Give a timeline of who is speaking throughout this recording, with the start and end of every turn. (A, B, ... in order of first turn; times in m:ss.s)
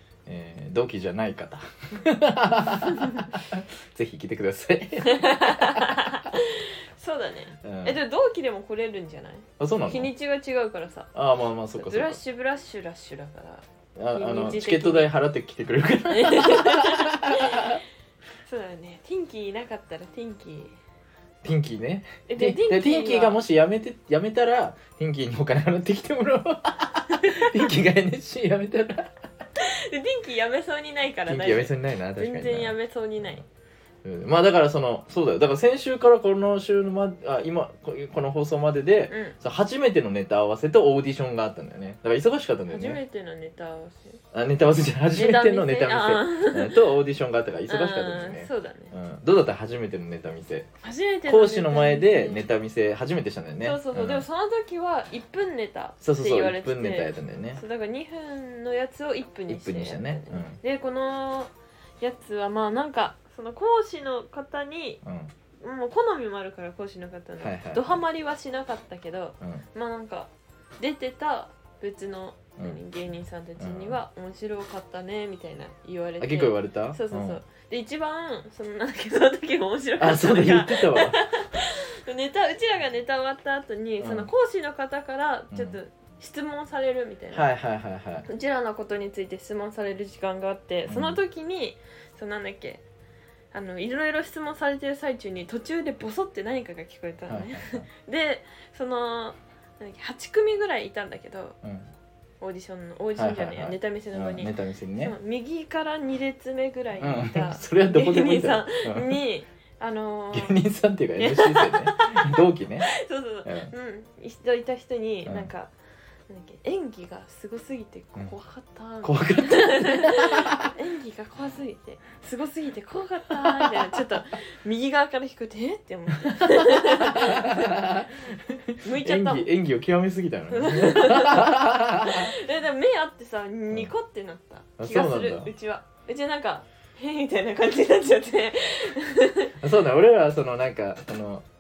0:00.3-0:06.0 A
0:02.7-0:03.2 B
0:05.0-0:11.1 B
0:07.6-0:08.0 A
0:09.6-0:10.1 A
0:11.2-0:12.2 A
0:11.8-0:15.1 B
0:14.0-0:17.8 A
0:16.1-0:17.8 B
0:18.4-0:20.8 B
0:21.4-0:29.1 A
0:22.3-0:23.4 B
0:27.1-0:27.6 B
0:29.6-0:33.4 B
0:31.3-0:33.3 A
0:34.0-0:43.0 A
0:39.1-0:39.4 B
0:42.7-0:44.2 B
0:44.3-0:50.7 A
0:45.2-0:46.8 B
0:47.7-0:48.9 B
0:50.8-0:52.5 B
0:51.3-0:54.2 A
0:53.6-1:05.0 B
0:56.0-0:57.6 A
0:59.5-1:00.6 A
1:05.0-1:05.3 A
1:05.6-1:27.5 B
1:07.4-1:08.0 A
1:13.6-1:14.0 A
1:16.2-1:17.4 A
1:20.0-1:21.2 A
1:24.0-1:24.3 A
1:25.5-1:25.8 A
1:27.3-1:28.3 A
1:28.3-1:32.8 B
1:30.9-1:31.2 A
1:33.5-1:41.6 B
1:37.3-1:37.9 A
1:41.6-1:41.9 A
1:42.4-1:50.6 B
1:43.2-1:45.2 A
1:47.0-1:49.2 A
1:50.3-1:52.9 A
1:51.2-1:55.7 B
1:53.4-1:53.7 A
1:56.3-2:07.8 B
1:59.0-2:00.7 A
2:03.3-2:03.9 A
2:06.3-2:12.4 A
2:08.8-2:09.5 B
2:10.5-2:19.5 B
2:14.8-2:15.5 A
2:19.6-2:21.4 A